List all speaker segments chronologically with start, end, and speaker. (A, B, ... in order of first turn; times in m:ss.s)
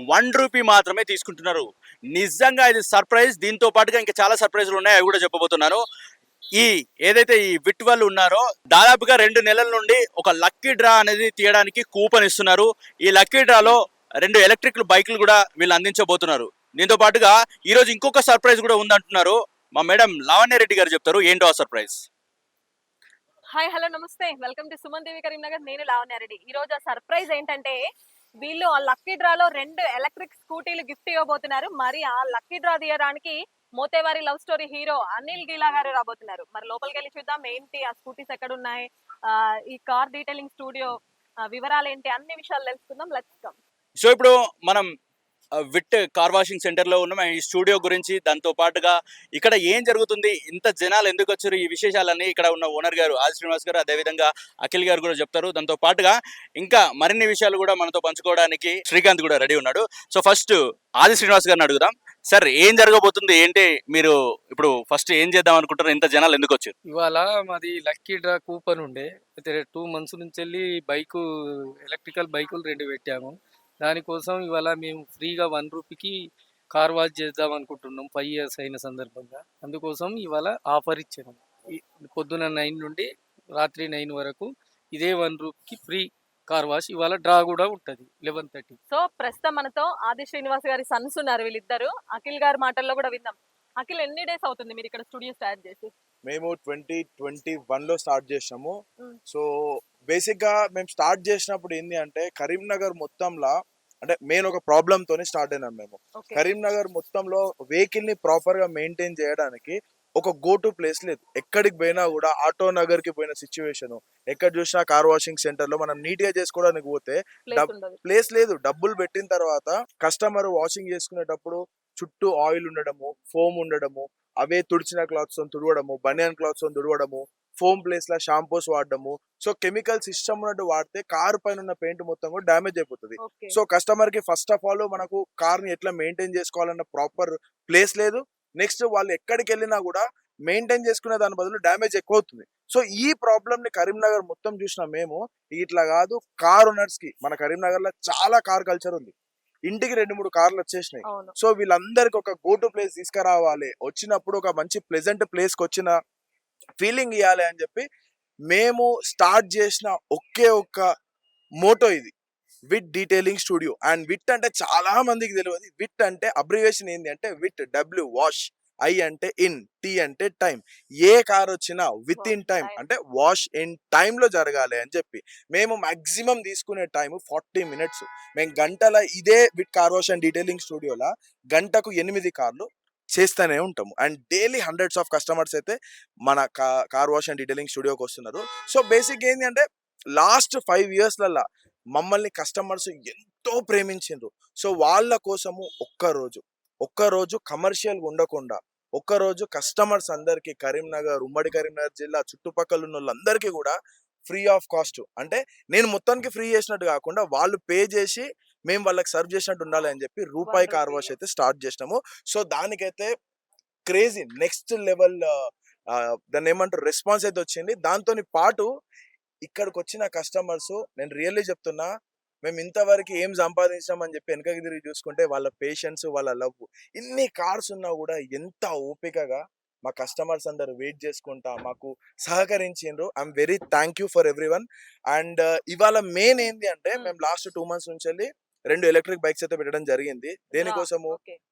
0:00.1-0:05.8 A
0:06.6-0:22.0 A
0:23.6-0:27.8 B
0:28.4-0:38.8 B
0:39.7-0:40.9 B
0:41.5-0:43.5 B
0:44.0-0:44.8 A
0:45.7-1:06.7 A
1:06.9-1:11.2 C
1:11.8-1:16.2 C
1:16.7-1:28.8 C
1:28.9-1:35.9 B
1:36.3-1:38.7 D
1:40.1-2:29.1 D
1:57.5-1:58.0 B
2:29.7-2:36.0 D
2:36.8-2:37.8 D
2:38.5-2:40.8 D
2:41.6-2:42.1 D
2:42.7-3:09.6 D
2:52.1-2:52.8 B
3:10.2-3:11.4 D
3:12.0-3:23.8 D
3:24.3-3:33.1 D
3:30.4-3:31.1 B
3:33.9-3:35.3 D
3:35.9-3:38.7 D
3:39.5-3:41.9 D
3:42.4-4:01.2 D
4:00.6-4:01.4 B